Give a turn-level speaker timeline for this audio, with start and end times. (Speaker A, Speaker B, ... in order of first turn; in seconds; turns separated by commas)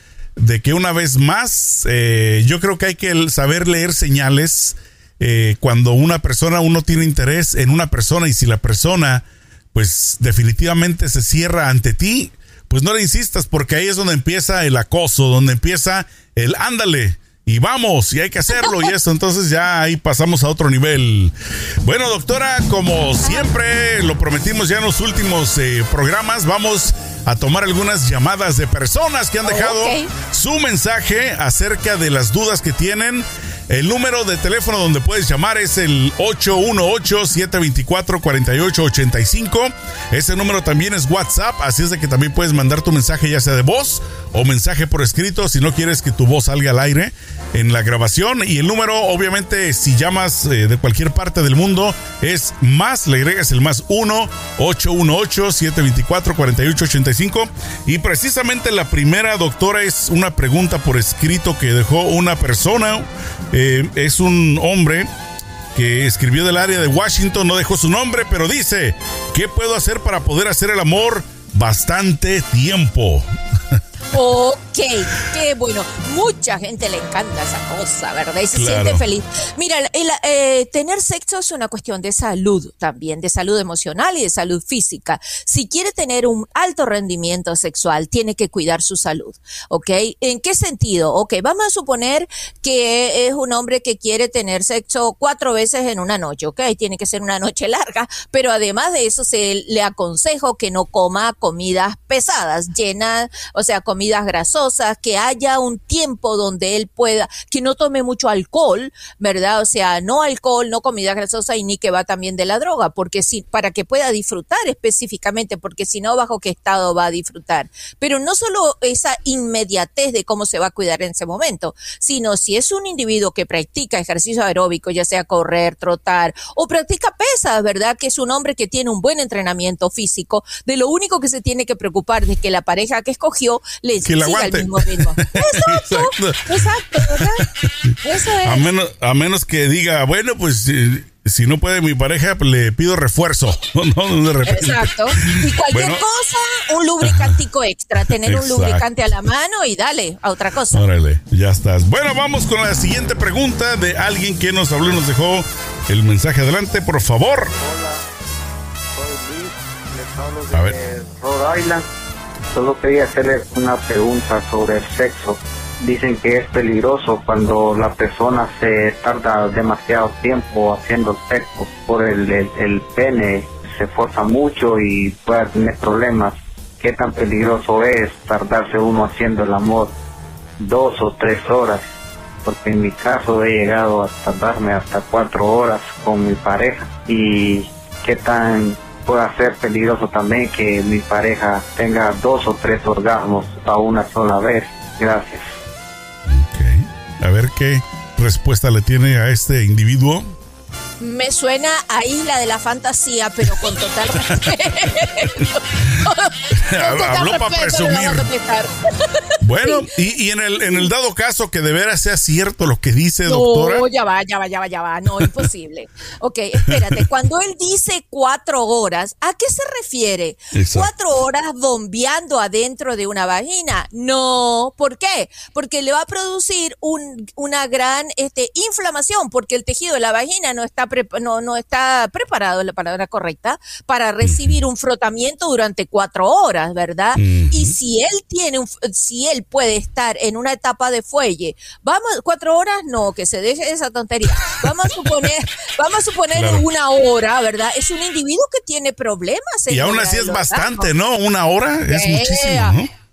Speaker A: 0.3-65.1, Speaker B: 29.4-30.1, Speaker A: 65.7-73.8, Speaker B: 74.1-138.7, Speaker A: 78.5-79.0, Speaker A: 134.0-137.9, Speaker A: 138.4-146.0, Speaker B: 144.4-150.8, Speaker A: 147.0-147.4, Speaker A: 148.1-148.9, Speaker A: 150.7-157.5, Speaker C: 157.5-158.0, Speaker C: 158.9-161.8, Speaker C: 162.5-179.9, Speaker C: 180.6-181.8, Speaker C: 182.4-195.4, Speaker A: 196.3-200.3, Speaker B: 201.0-209.9, Speaker A: 204.3-205.5, Speaker A: 206.5-208.3, Speaker A: 209.4-213.8, Speaker B: 210.6-210.9, Speaker B: 213.2-250.9, Speaker A: 215.2-215.4, Speaker A: 220.5-220.9, Speaker A: 234.2-234.6, Speaker A: 237.2-237.7, Speaker A: 246.3-246.6, Speaker A: 249.7-252.9, Speaker B: 251.9-252.8